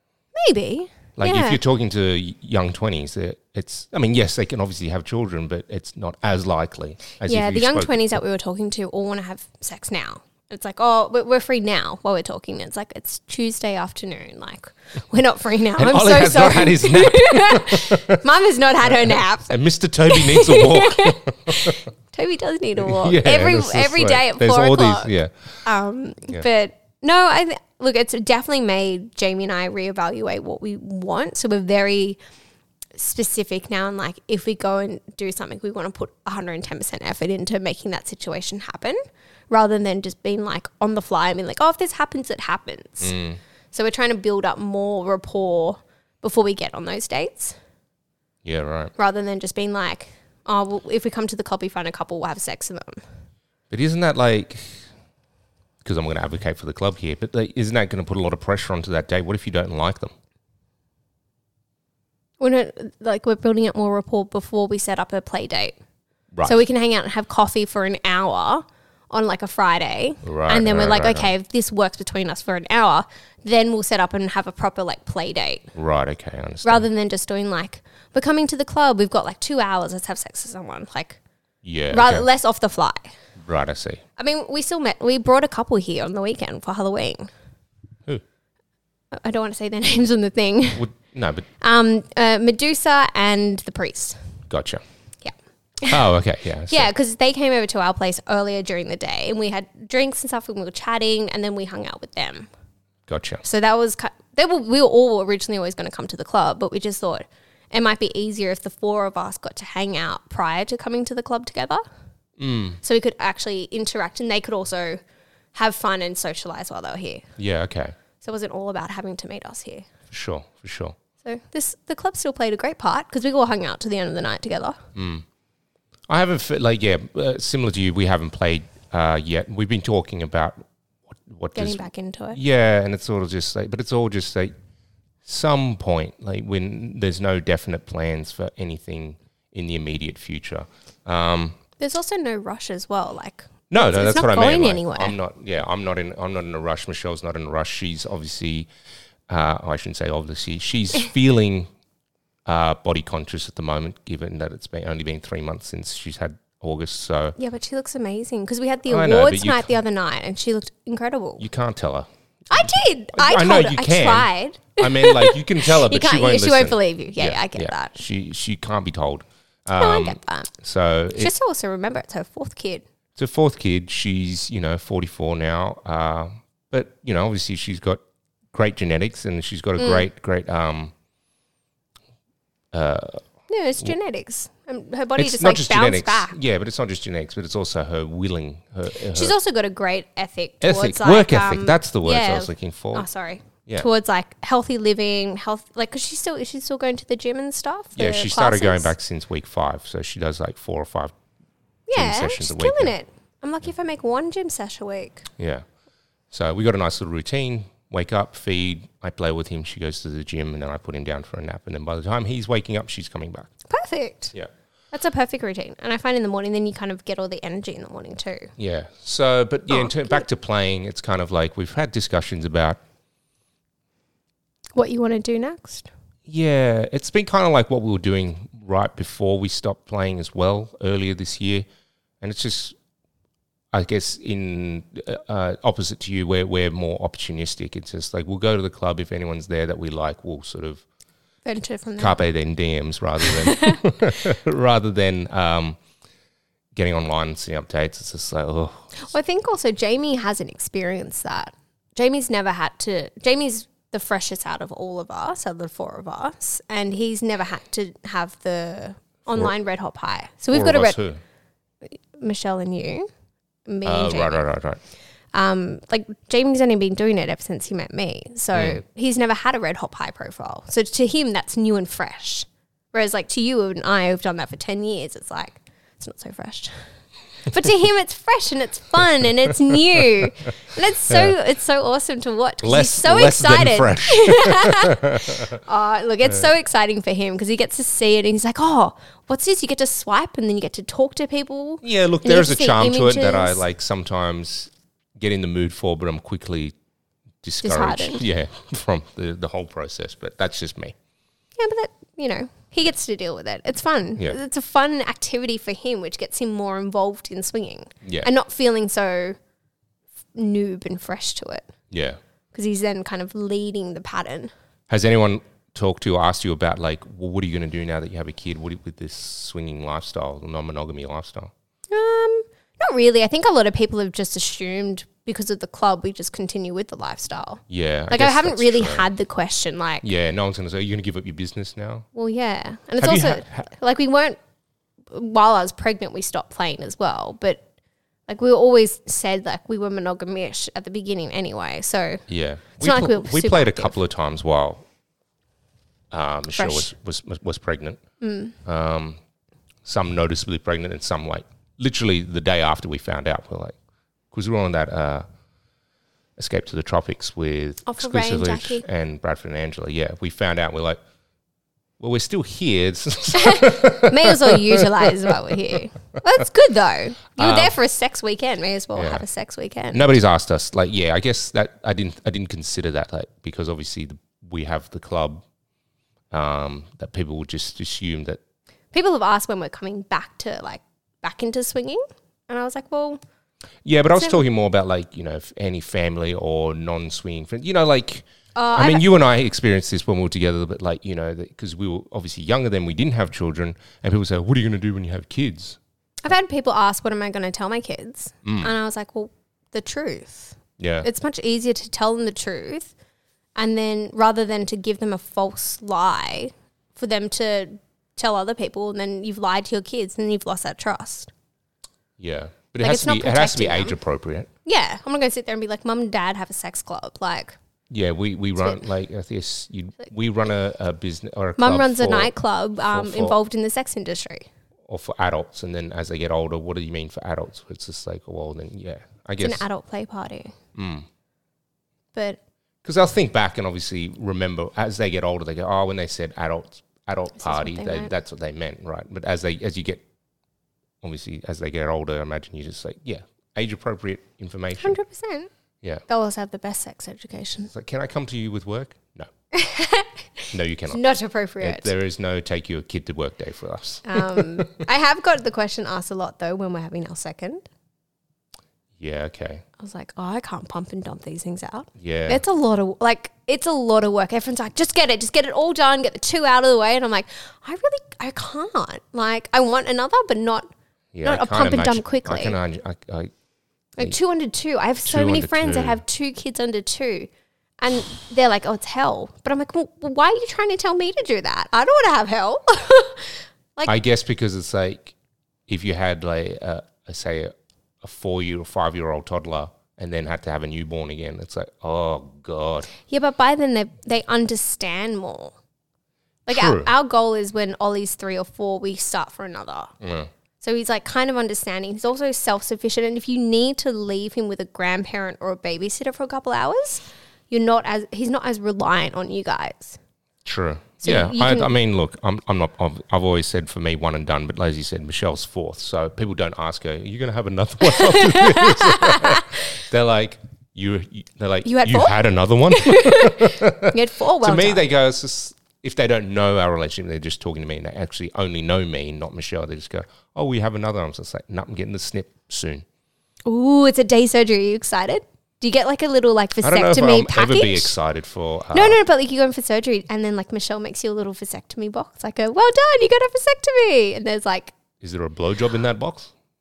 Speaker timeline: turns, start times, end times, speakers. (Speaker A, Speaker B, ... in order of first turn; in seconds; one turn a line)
Speaker A: 0.3-1.6
Speaker B: 1.2-8.1
Speaker A: 7.2-25.1
Speaker B: 15.8-18.2
Speaker B: 18.8-21.8
Speaker B: 22.8-25.3
Speaker A: 25.6-32.2
Speaker A: 33.0-39.0
Speaker A: 39.5-43.1
Speaker B: 43.0-43.4
Speaker A: 43.7-47.5
Speaker B: 48.4-48.9
Speaker A: 49.0-53.0
Speaker B: 53.7-54.8
Speaker B: 55.8-60.1
Speaker A: 62.4-65.8
Speaker B: 66.3-66.6
Speaker A: 66.4-75.7
Speaker B: 70.2-71.3
Speaker B: 75.7-76.8
Speaker A: 76.6-81.2
Speaker B: 81.6-82.2
Speaker A: 81.9-83.1
Speaker B: 83.4-84.0
Speaker A: 84.2-87.3
Speaker A: 89.1-90.9
Speaker B: 90.8-91.5
Speaker A: 91.6-94.2
Speaker B: 94.5-94.8
Speaker A: 95.2-96.1
Speaker B: 95.9-96.9
Speaker A: 96.7-102.5
Speaker B: 103.1-103.4
Speaker A: 103.4-111.8
Speaker B: 112.4-112.8
Speaker A: 112.8-115.0
Speaker A: 115.5-117.2
Speaker B: 117.4-117.9
Speaker A: 118.2-119.9
Speaker B: 120.1-121.0
Speaker A: 121.2-124.8
Speaker B: 124.9-125.2
Speaker B: 126.1-130.6
Speaker B: 131.1-134.5
Speaker A: 131.5-132.4
Speaker B: 135.2-141.6
Speaker A: 141.8-145.2
Speaker B: 143.7-148.7
Speaker B: 149.3-151.7
Speaker B: 152.4-157.4
Speaker A: 157.4-161.4
Speaker B: 158.8-159.7
Speaker B: 161.4-171.3
Speaker A: 162.5-168.0
Speaker A: 169.7-170.5
Speaker A: 171.1-172.8
Speaker B: 173.2-178.0
Speaker B: 178.5-180.9
Speaker A: 179.8-180.1
Speaker B: 182.7-183.2
Speaker A: 183.5-186.3
Speaker B: 185.2-189.3
Speaker A: 189.1-198.9
Speaker B: 190.6-193.1
Speaker B: 197.9-201.1
Speaker A: 201.9-205.2
Speaker B: 201.9-202.9
Speaker B: 205.4-205.6
Speaker B: 206.3-213.5
Speaker A: 213.7-214.3
Speaker A: 214.9-218.5
Speaker B: 218.6-222.8
Speaker A: 219.7-220.2
Speaker A: 224.8-225.9
Speaker B: 226.2-231.7
Speaker B: 232.2-232.8
Speaker B: 233.7-240.8
Speaker A: 241.4-242.2
Speaker B: 242.0-245.8
Speaker A: 243.4-243.8
Speaker B: 246.7-248.9
Speaker A: 249.0-261.0
Speaker B: 260.5-261.2
Speaker A: 261.8-263.1
Speaker A: 263.7-264.4
Speaker B: 263.8-264.8
Speaker A: 265.3-276.7
Speaker B: 268.5-268.8
Speaker A: 277.4-293.6
Speaker B: 281.1-281.3
Speaker B: 282.6-285.6
Speaker B: 291.8-296.7
Speaker B: 297.4-300.9
Speaker A: 297.6-298.2
Speaker A: 301.6-309.4
Speaker B: 308.0-308.3
Speaker A: 310.3-311.7
Speaker B: 311.9-312.2
Speaker A: 312.5-314.5
Speaker B: 314.9-321.5
Speaker A: 321.9-330.0
Speaker B: 327.7-329.1
Speaker B: 330.0-332.1
Speaker A: 332.1-334.4
Speaker B: 333.0-333.7
Speaker A: 335.1-337.6
Speaker A: 338.3-342.2
Speaker B: 342.3-344.8
Speaker A: 342.8-343.9
Speaker B: 346.1-348.0
Speaker A: 346.5-346.9
Speaker A: 348.2-348.5
Speaker B: 348.6-349.2
Speaker B: 349.8-353.8
Speaker B: 354.3-355.2
Speaker B: 356.4-361.0
Speaker A: 357.8-358.8
Speaker B: 362.0-365.5
Speaker A: 363.3-370.1
Speaker B: 367.4-367.8
Speaker B: 368.9-369.2
Speaker B: 369.9-375.4
Speaker B: 376.3-378.4
Speaker A: 378.9-383.2
Speaker B: 383.8-395.8
Speaker A: 384.1-384.4
Speaker A: 388.6-389.1
Speaker A: 396.2-402.9
Speaker B: 398.4-398.7
Speaker B: 400.8-401.1
Speaker A: 403.6-411.3
Speaker B: 412.2-414.5
Speaker A: 412.8-413.9
Speaker A: 414.6-417.6
Speaker B: 417.9-423.4
Speaker A: 421.6-424.5
Speaker B: 424.9-429.6
Speaker A: 429.4-430.5
Speaker B: 430.7-431.1
Speaker A: 432.1-432.4
Speaker B: 432.8-440.0
Speaker A: 437.4-438.1
Speaker B: 441.0-445.0
Speaker A: 444.8-445.5
Speaker A: 446.1-447.7
Speaker B: 447.7-449.3
Speaker A: 449.5-451.9
Speaker B: 450.5-451.0
Speaker B: 451.6-454.7
Speaker A: 454.0-457.6
Speaker B: 459.0-459.6
Speaker A: 459.8-470.7
Speaker B: 462.0-462.4
Speaker B: 471.1-473.3
Speaker A: 471.2-472.6
Speaker A: 474.0-477.3
Speaker B: 475.0-476.0
Speaker A: 477.8-483.9
Speaker B: 483.9-485.1
Speaker B: 485.7-492.9
Speaker A: 493.0-495.5
Speaker A: 496.5-499.9
Speaker B: 496.5-496.9
Speaker B: 500.0-500.3
Speaker A: 500.6-510.0
Speaker B: 510.4-532.8
Speaker A: 511.0-511.7
Speaker A: 517.8-519.5
Speaker A: 521.6-522.2
Speaker A: 522.7-524.8
Speaker A: 533.5-537.9
Speaker B: 536.6-539.0
Speaker A: 538.7-544.7
Speaker B: 545.0-546.3